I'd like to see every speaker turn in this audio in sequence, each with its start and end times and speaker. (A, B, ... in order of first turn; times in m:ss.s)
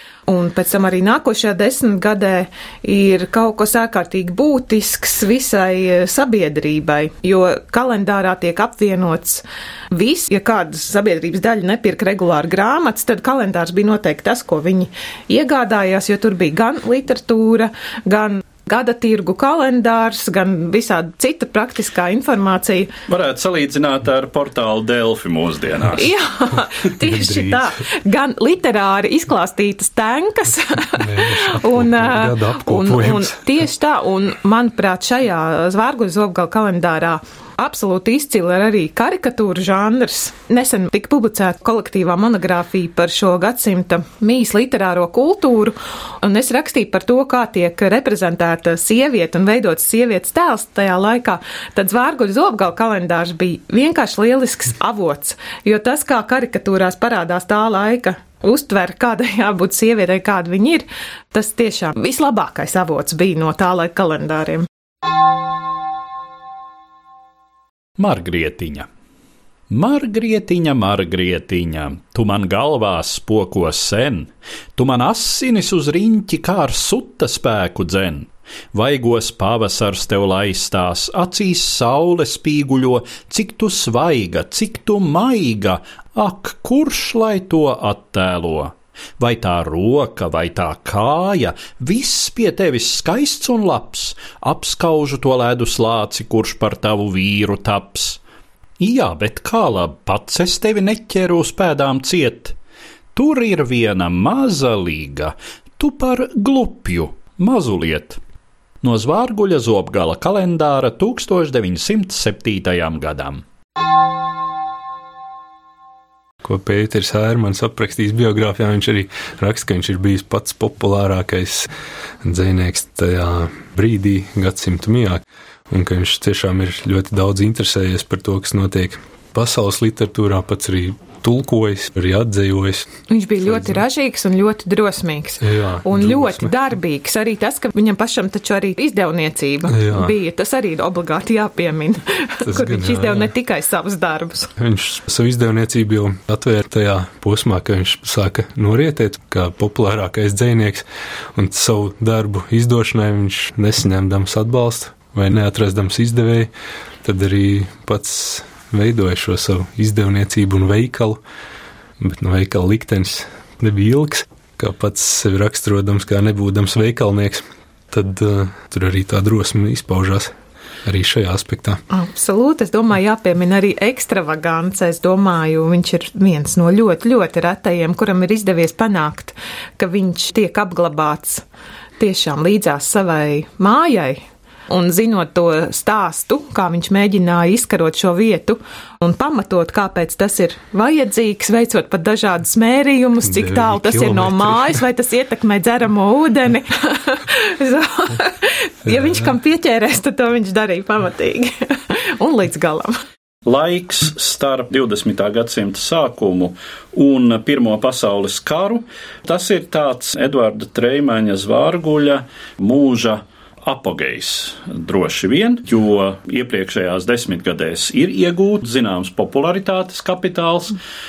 0:00.3-0:22.9 A
0:23.1-0:26.1 B
0:25.9-1:04.7 A
0:27.0-0:27.7 C
0:30.8-0:33.5 C
1:08.0-1:08.9 B
1:09.7-1:38.2 B
1:38.8-1:42.6 B
1:43.1-1:48.2 B
1:48.8-1:53.4 B
1:56.4-2:01.7 C
2:02.2-2:12.9 C
2:13.1-2:24.5 A
2:13.4-2:13.8 C
2:15.4-2:16.5 C
2:19.7-2:20.1 C
2:22.4-2:23.3 C
2:24.6-2:36.5 C
2:37.0-2:41.2 C
2:42.0-2:50.3 C
2:50.8-2:51.8 C
2:51.9-3:01.4 A
3:02.0-3:23.0 A
3:13.2-3:14.8 C
3:23.4-3:40.8 B